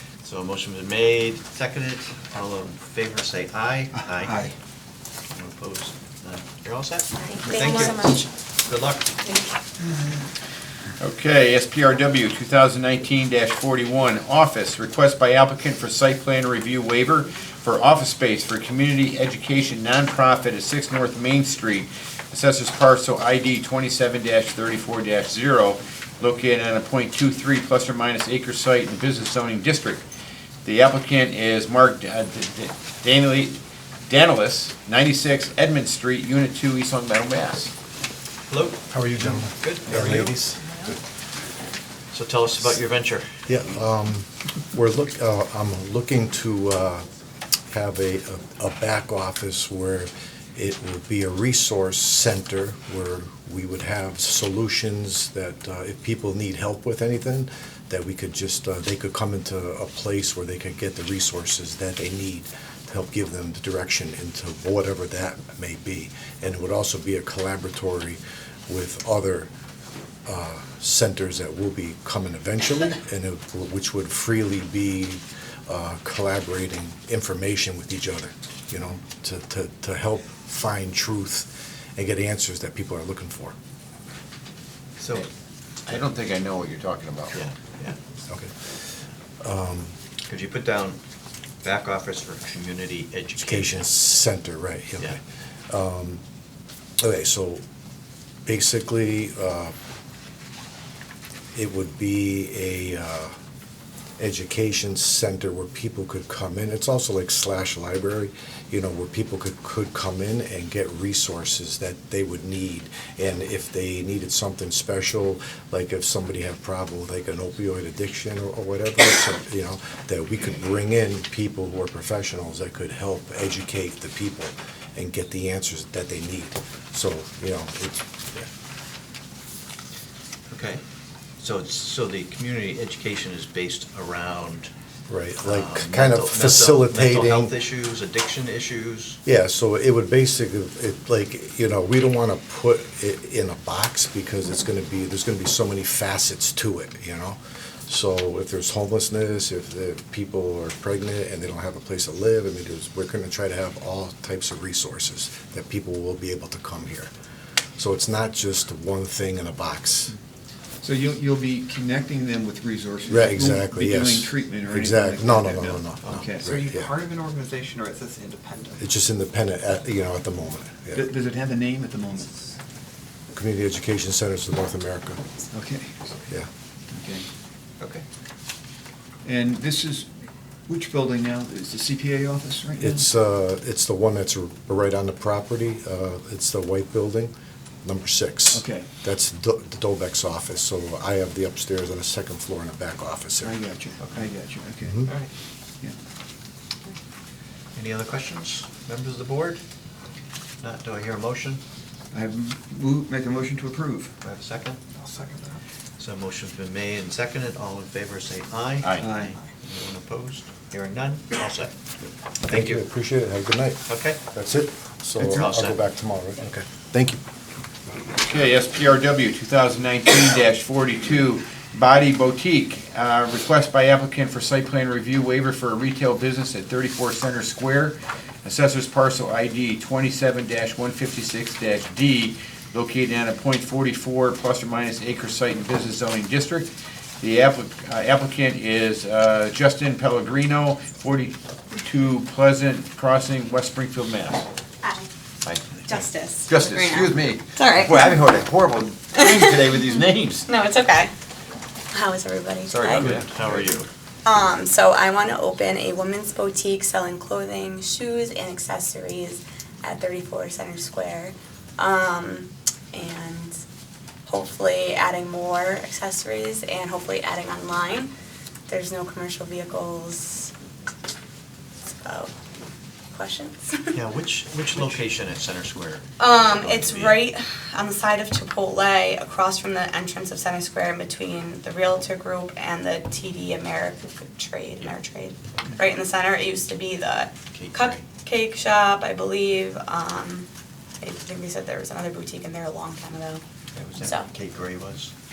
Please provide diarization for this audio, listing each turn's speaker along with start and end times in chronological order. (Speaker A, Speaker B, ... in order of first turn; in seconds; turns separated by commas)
Speaker A: 0.2-4.5, Speaker B: 4.0-4.5, Speaker A: 5.3-9.2, Speaker C: 7.4-8.2, Speaker D: 11.0-30.0, Speaker D: 30.6-33.5, Speaker D: 34.1-37.7, Speaker A: 38.5-40.4, Speaker E: 38.9-41.0, Speaker A: 42.1-43.4, Speaker E: 43.5-47.0, Speaker E: 47.7-69.5, Speaker E: 70.3-83.5, Speaker A: 85.0-85.3, Speaker D: 85.9-87.4, Speaker A: 87.3-88.0, Speaker E: 88.3-88.8, Speaker E: 89.4-89.9, Speaker A: 90.3-91.0, Speaker A: 91.6-93.8, Speaker E: 93.4-96.2, Speaker E: 97.0-97.6, Speaker E: 98.5-99.7, Speaker E: 101.5-103.3, Speaker E: 104.2-128.4, Speaker A: 130.5-130.8, Speaker A: 131.4-134.7, Speaker E: 135.1-137.6, Speaker A: 135.4-139.2, Speaker E: 139.2-157.1, Speaker E: 157.8-160.2, Speaker B: 160.8-166.5, Speaker E: 163.1-166.9, Speaker C: 166.5-168.8, Speaker E: 168.8-171.1, Speaker B: 170.9-172.4, Speaker E: 173.3-175.2, Speaker B: 175.5-176.2, Speaker B: 176.9-177.3, Speaker B: 179.2-180.1, Speaker B: 180.7-183.0, Speaker E: 182.8-187.3, Speaker E: 187.8-193.6, Speaker B: 188.5-188.9, Speaker B: 193.4-195.1, Speaker A: 197.8-199.6, Speaker A: 200.6-201.6, Speaker B: 202.1-204.2, Speaker A: 204.2-204.8, Speaker C: 205.1-205.6, Speaker A: 206.0-211.8, Speaker B: 209.0-209.4, Speaker E: 212.5-217.2, Speaker A: 212.5-212.8, Speaker A: 213.9-214.2, Speaker A: 215.2-215.8, Speaker D: 218.1-244.5, Speaker D: 245.5-250.5, Speaker F: 245.9-248.2, Speaker F: 249.2-251.1, Speaker F: 251.9-253.1, Speaker D: 252.7-253.6, Speaker A: 252.9-253.9, Speaker F: 254.2-263.6, Speaker F: 264.3-268.1, Speaker F: 268.7-270.5, Speaker F: 272.0-272.3, Speaker F: 273.1-273.9, Speaker A: 273.9-277.2, Speaker F: 276.2-290.5, Speaker A: 287.5-288.0, Speaker F: 291.0-293.4, Speaker A: 293.7-295.1, Speaker F: 294.0-294.3